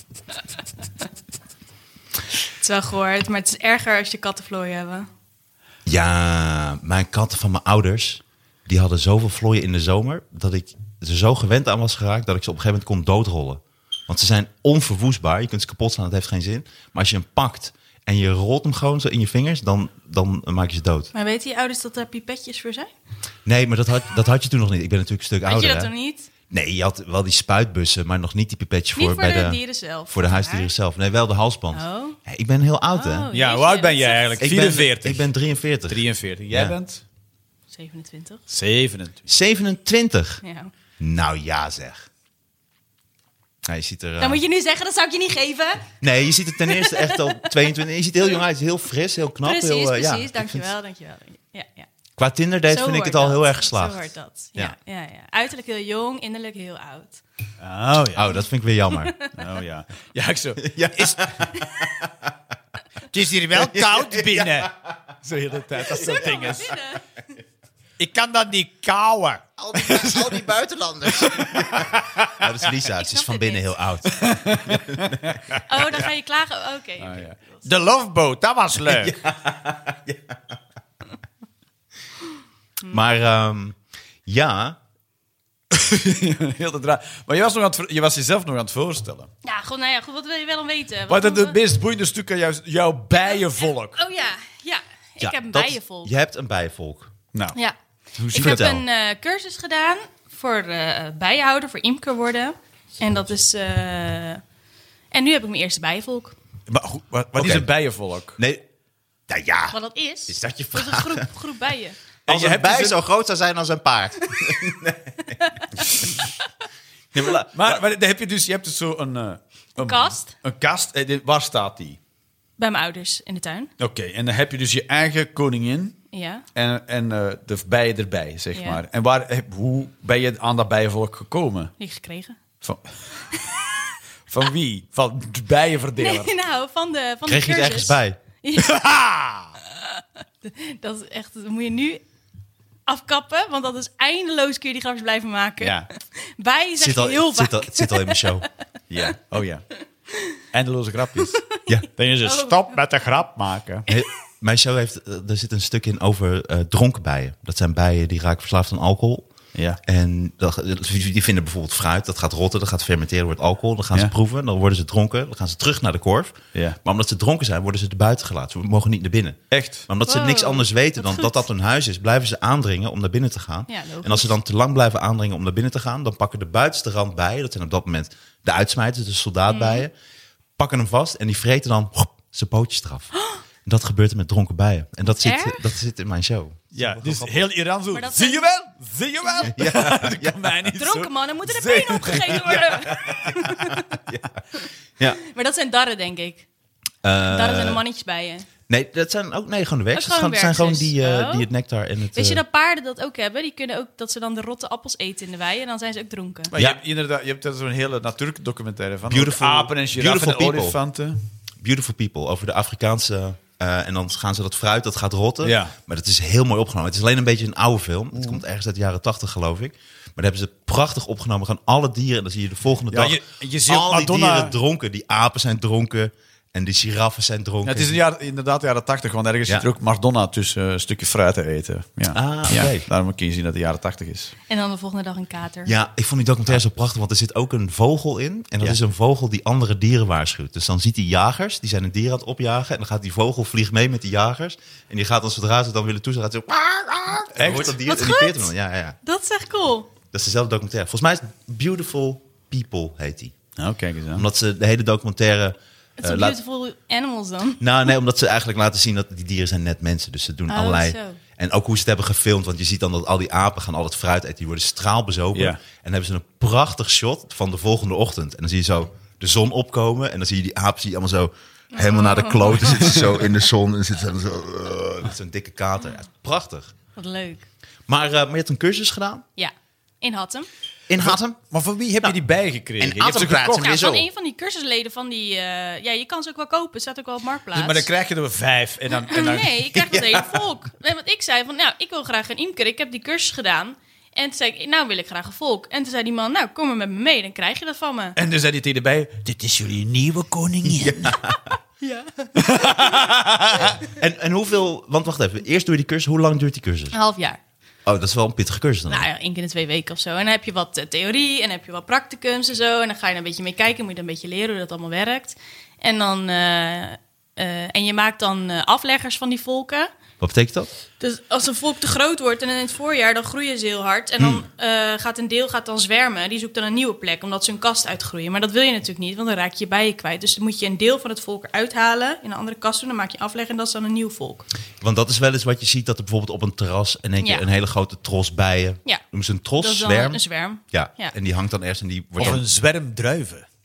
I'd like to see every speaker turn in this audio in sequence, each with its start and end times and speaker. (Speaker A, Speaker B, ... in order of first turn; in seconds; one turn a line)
Speaker A: 2.6-5.1
Speaker B: 5.9-21.1
Speaker A: 21.1-22.9
Speaker B: 23.5-25.9
Speaker A: 25.4-26.3
Speaker B: 26.5-33.3
Speaker A: 29.0-30.7
Speaker A: 31.7-32.2
Speaker A: 33.0-34.4
Speaker C: 33.3-35.3
Speaker B: 34.4-36.8
Speaker C: 35.9-37.0
Speaker A: 37.7-38.4
Speaker C: 38.5-39.2
Speaker B: 39.3-40.4
Speaker A: 40.4-40.7
Speaker B: 41.0-42.1
Speaker B: 43.6-44.4
Speaker A: 44.2-45.9
Speaker B: 46.0-50.7
Speaker A: 46.5-47.5
Speaker A: 49.4-51.9
Speaker B: 52.2-54.8
Speaker A: 52.7-57.2
Speaker C: 57.6-58.4
Speaker B: 58.1-59.1
Speaker A: 59.0-59.4
Speaker C: 59.3-61.5
Speaker B: 60.6-62.3
Speaker C: 63.1-64.7
Speaker B: 63.5-64.9
Speaker C: 65.2-66.8
Speaker B: 65.8-66.4
Speaker A: 65.9-67.1
Speaker C: 68.0-70.5
Speaker B: 69.6-75.3
Speaker C: 71.1-72.5
Speaker A: 73.0-73.7
Speaker C: 74.0-75.6
Speaker A: 75.5-77.7
Speaker C: 77.0-79.2
Speaker B: 78.8-80.6
Speaker B: 82.9-84.8
Speaker C: 85.7-89.3
Speaker A: 89.4-91.6
Speaker C: 91.1-94.0
Speaker A: 93.2-96.1
Speaker B: 95.2-97.1
Speaker C: 98.2-98.7
Speaker B: 98.2-98.8
Speaker A: 98.3-104.4
Speaker A: 105.1-106.3
Speaker C: 106.7-108.4
Speaker B: 107.3-107.7
Speaker B: 108.4-108.6
Speaker B: 109.3-111.3
Speaker A: 109.7-112.0
Speaker C: 112.3-113.0
Speaker B: 112.3-115.4
Speaker B: 117.1-117.8
Speaker C: 117.5-122.0
Speaker A: 119.8-120.3
Speaker A: 122.6-123.7
Speaker C: 123.8-126.0
Speaker A: 126.1-126.5
Speaker C: 126.5-131.7
Speaker A: 128.5-128.8
Speaker A: 131.8-132.4
Speaker C: 132.6-132.9
Speaker A: 133.3-133.9
Speaker C: 134.3-136.3
Speaker A: 136.0-138.8
Speaker B: 137.3-138.2
Speaker C: 138.6-139.5
Speaker A: 139.7-142.0
Speaker A: 142.9-148.3
Speaker C: 145.6-145.9
Speaker B: 146.8-148.5
Speaker C: 148.9-149.7
Speaker C: 150.5-151.4
Speaker C: 152.0-153.9
Speaker A: 152.2-152.7
Speaker B: 153.9-159.3
Speaker C: 159.6-159.8
Speaker B: 159.8-179.9
Speaker C: 169.5-169.9
Speaker A: 170.1-171.4
Speaker A: 173.7-174.3
Speaker A: 179.5-179.8
Speaker B: 180.6-183.1
Speaker A: 183.1-183.4
Speaker B: 183.7-187.4
Speaker A: 185.2-185.6
Speaker C: 186.7-193.3
Speaker A: 187.9-188.5
Speaker B: 189.5-190.6
Speaker A: 190.7-194.0
Speaker B: 194.1-194.4
Speaker A: 194.6-196.5
Speaker B: 197.0-197.8
Speaker A: 197.2-198.5
Speaker B: 198.7-202.4
Speaker A: 199.9-201.5
Speaker A: 202.2-206.5
Speaker C: 206.5-211.2
Speaker B: 206.6-206.8
Speaker B: 209.1-210.8
Speaker B: 211.6-228.0
Speaker C: 215.4-215.8
Speaker C: 218.1-218.4
Speaker C: 222.9-224.6
Speaker C: 227.6-234.3
Speaker B: 232.1-232.9
Speaker A: 234.5-235.7
Speaker B: 235.7-249.0
Speaker C: 247.3-247.8
Speaker A: 247.9-248.5
Speaker A: 249.0-249.9
Speaker B: 250.1-253.3
Speaker C: 253.6-254.3
Speaker B: 254.2-256.4
Speaker A: 256.0-257.6
Speaker B: 257.6-276.7
Speaker A: 260.5-261.2
Speaker C: 265.3-265.6
Speaker A: 271.7-273.1
Speaker A: 277.0-277.5
Speaker B: 277.9-279.2
Speaker A: 279.4-280.5
Speaker B: 280.9-281.4
Speaker C: 281.0-283.7
Speaker B: 282.8-284.1
Speaker A: 283.6-287.9
Speaker C: 287.5-289.9
Speaker A: 289.1-298.2
Speaker B: 289.9-290.4
Speaker C: 298.2-301.2
Speaker B: 300.6-301.4
Speaker A: 301.8-303.0
Speaker C: 302.4-303.8
Speaker B: 303.9-307.0
Speaker A: 306.9-307.4
Speaker B: 307.9-309.1
Speaker A: 308.9-319.9
Speaker B: 320.2-320.7
Speaker A: 321.0-334.5
Speaker B: 324.2-324.4
Speaker B: 334.8-342.4
Speaker A: 337.2-337.5
Speaker A: 339.6-341.1
Speaker C: 342.2-343.4